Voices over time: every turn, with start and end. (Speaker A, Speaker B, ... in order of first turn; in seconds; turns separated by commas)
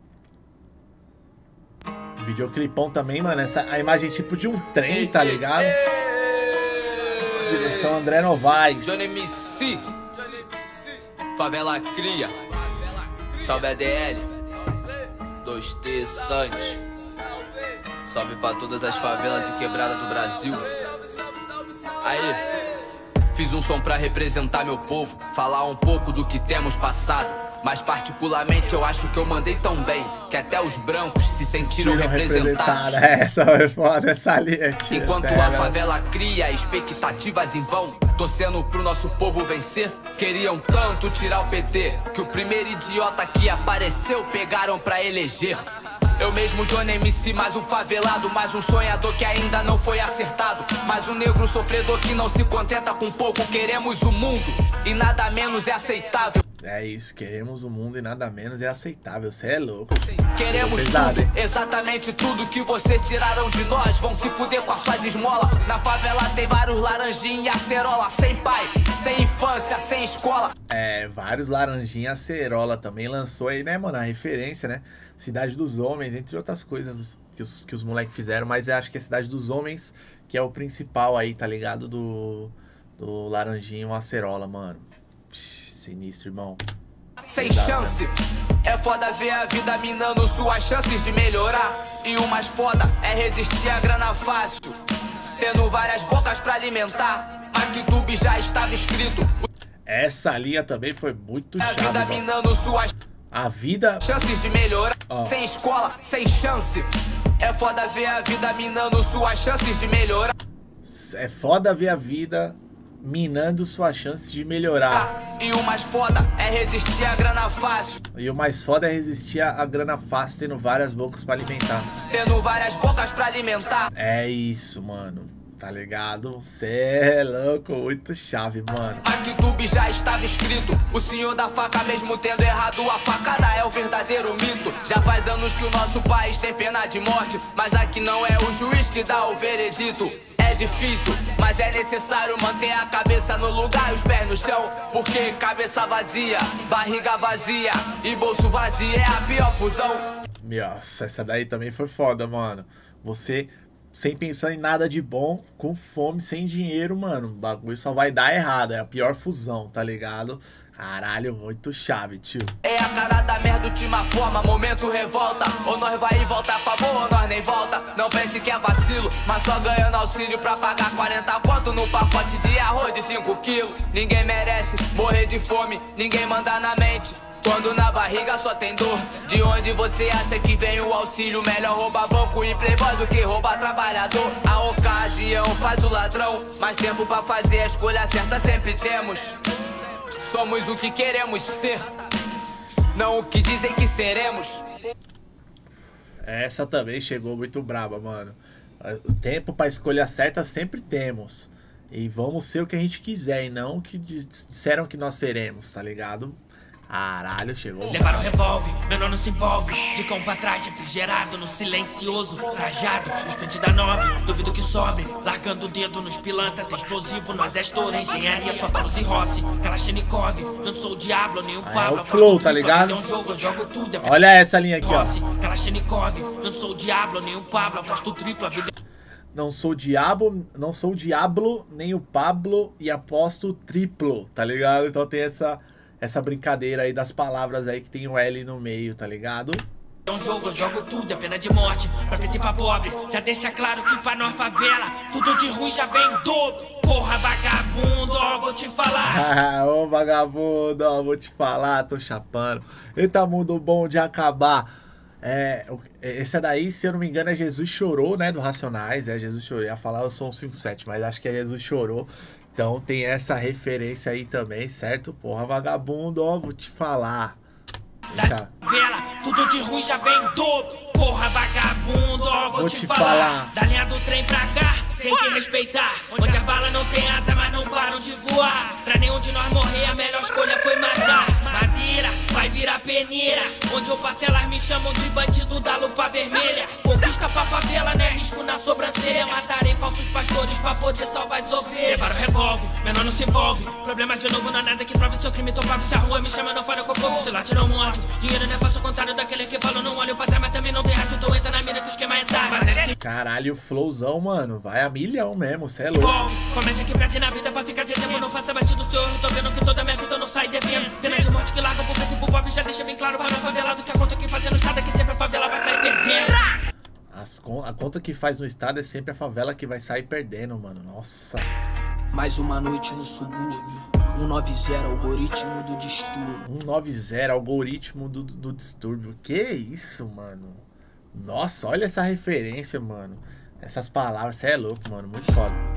Speaker A: 2.2-5.8, Speaker B: 4.9-7.9, Speaker A: 7.4-9.1, Speaker B: 8.8-10.1, Speaker B: 11.3-12.4, Speaker B: 13.3-14.3, Speaker B: 15.4-16.8, Speaker B: 18.1-20.7, Speaker B: 22.0-22.4, Speaker B: 23.3-33.0, Speaker A: 31.5-35.8, Speaker B: 34.9-45.7, Speaker B: 46.2-56.4, Speaker A: 56.6-61.3, Speaker B: 59.9-70.5, Speaker A: 70.7-86.6, Speaker B: 87.3-88.1, Speaker A: 87.4-88.0, Speaker B: 88.6-94.8, Speaker B: 95.4-99.5, Speaker A: 99.9-102.2, Speaker B: 101.6-102.9, Speaker A: 103.3-104.3, Speaker B: 104.0-110.3, Speaker A: 105.1-105.4, Speaker A: 110.8-115.1, Speaker B: 114.9-118.0, Speaker A: 118.1-121.9, Speaker B: 122.1-123.9, Speaker A: 124.0-129.0, Speaker B: 129.0-150.1, Speaker A: 150.4-162.5, Speaker B: 162.6-189.4, Speaker B: 190.2-192.0, Speaker B: 192.9-194.7, Speaker A: 196.2-206.4, Speaker A: 206.9-208.3, Speaker C: 207.9-224.2, Speaker A: 221.6-223.0, Speaker A: 224.0-225.2, Speaker C: 224.8-228.7, Speaker A: 229.3-239.6, Speaker C: 240.1-249.2, Speaker A: 249.0-267.4, Speaker A: 268.1-268.5, Speaker C: 268.1-302.9, Speaker A: 272.5-273.5, Speaker A: 303.0-306.2, Speaker C: 305.9-316.5, Speaker A: 317.1-321.5, Speaker D: 322.1-326.4, Speaker A: 326.4-335.6